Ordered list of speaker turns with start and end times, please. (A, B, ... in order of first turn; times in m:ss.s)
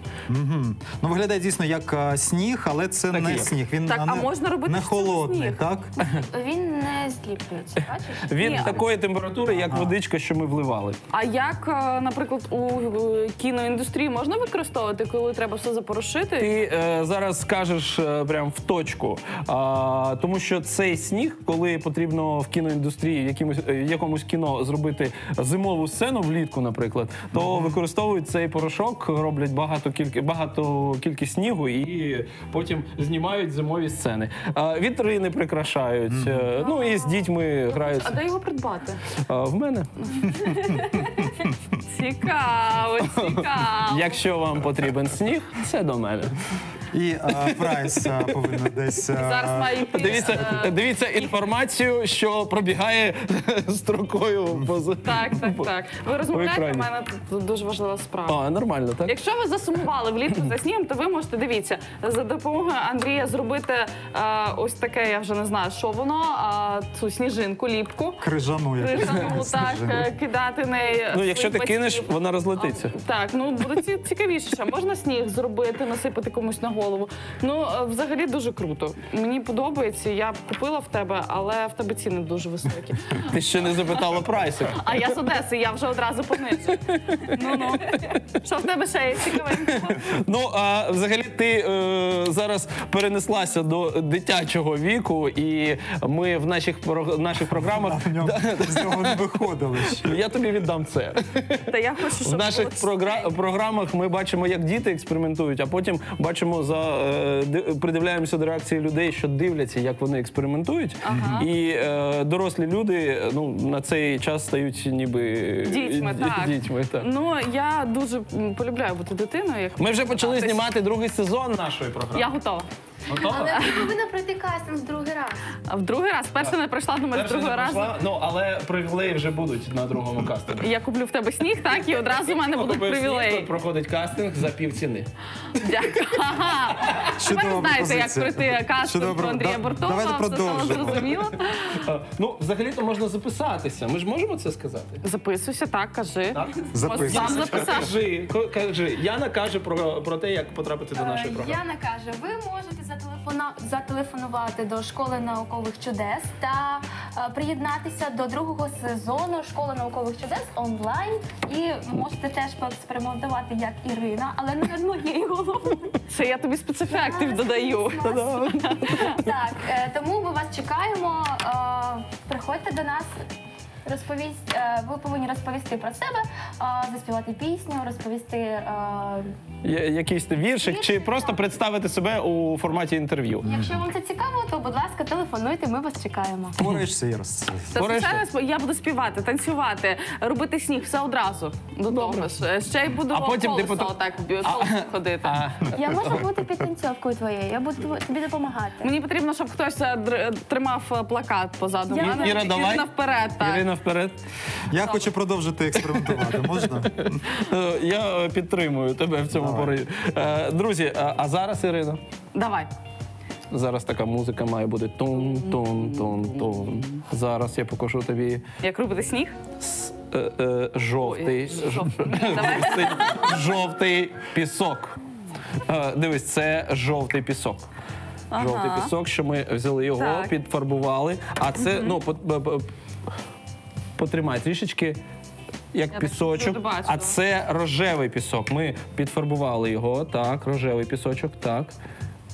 0:00.3-0:05.9 A
0:03.1-0:03.5 B
0:03.9-0:05.6 C
0:06.0-0:08.8 D
0:07.8-0:11.0 B
0:08.3-0:08.8 C
0:09.5-0:10.0 A
0:11.1-0:16.6 C
0:16.4-0:38.2 B
0:27.3-0:27.8 A
0:36.1-0:36.5 A
0:36.6-0:39.0 C
0:39.1-0:39.9 B
0:40.1-0:44.2 C
0:40.3-0:41.2 A
0:43.1-0:46.3 B
0:46.9-0:50.5 A
0:47.3-0:48.6 B
0:49.1-0:51.3 C
0:49.9-0:55.7 B
0:54.5-0:54.8 A
0:55.0-0:58.4 C
0:56.3-0:56.9 B
0:58.3-0:59.1 B
0:59.0-1:08.2 C
1:08.2-1:10.1 A
1:08.8-1:24.0 C
1:11.1-1:12.9 B
1:23.2-1:25.0 B
1:24.7-1:30.1 C
1:26.9-1:28.2 B
1:29.4-1:41.6 B
1:37.5-1:40.2 A
1:41.6-1:43.3 C
1:42.2-1:57.1 B
1:51.0-1:51.5 C
1:51.1-1:51.5 A
1:55.6-2:00.6 C
1:59.8-2:02.3 B
2:02.1-2:02.7 C
2:03.1-2:03.6 B
2:03.1-2:05.5 D
2:03.3-2:03.9 C
2:05.7-2:08.0 C
2:07.1-2:10.6 B
2:10.6-2:13.5 C
2:11.8-2:15.1 B
2:15.5-2:21.8 C
2:17.2-2:21.1 A
2:20.6-2:25.0 B
2:25.0-2:27.9 C
2:26.3-2:31.6 B
2:26.7-2:27.4 A
2:30.9-2:46.0 D
2:46.1-2:49.2 C
2:46.9-2:53.1 D
2:53.8-2:59.3 D
2:59.6-3:03.5 B
3:00.6-3:01.4 D
3:03.4-3:06.6 D
3:03.4-3:03.8 A
3:06.6-3:07.8 A
3:06.6-3:06.8 B
3:07.7-3:15.4 C
3:07.8-3:08.2 B
3:11.9-3:12.3 B
3:13.1-3:16.3 B
3:15.7-3:18.9 D
3:18.8-3:23.7 C
3:21.9-3:22.4 D
3:22.0-3:24.2 B
3:24.7-3:27.2 A
3:24.8-3:25.1 C
3:25.9-3:32.0 B
3:29.3-3:29.7 A
3:32.3-3:32.7 C
3:33.5-3:38.4 B
3:35.2-3:36.5 C
3:38.6-3:39.3 C
3:39.6-3:45.0 B
3:41.0-3:43.4 C
3:45.6-3:47.7 B
3:48.3-3:48.9 C
3:48.3-3:52.6 B
3:50.0-3:50.3 C
3:51.6-3:52.0 C
3:54.0-3:55.0 B
3:55.7-4:01.7 B
3:55.9-3:57.2 C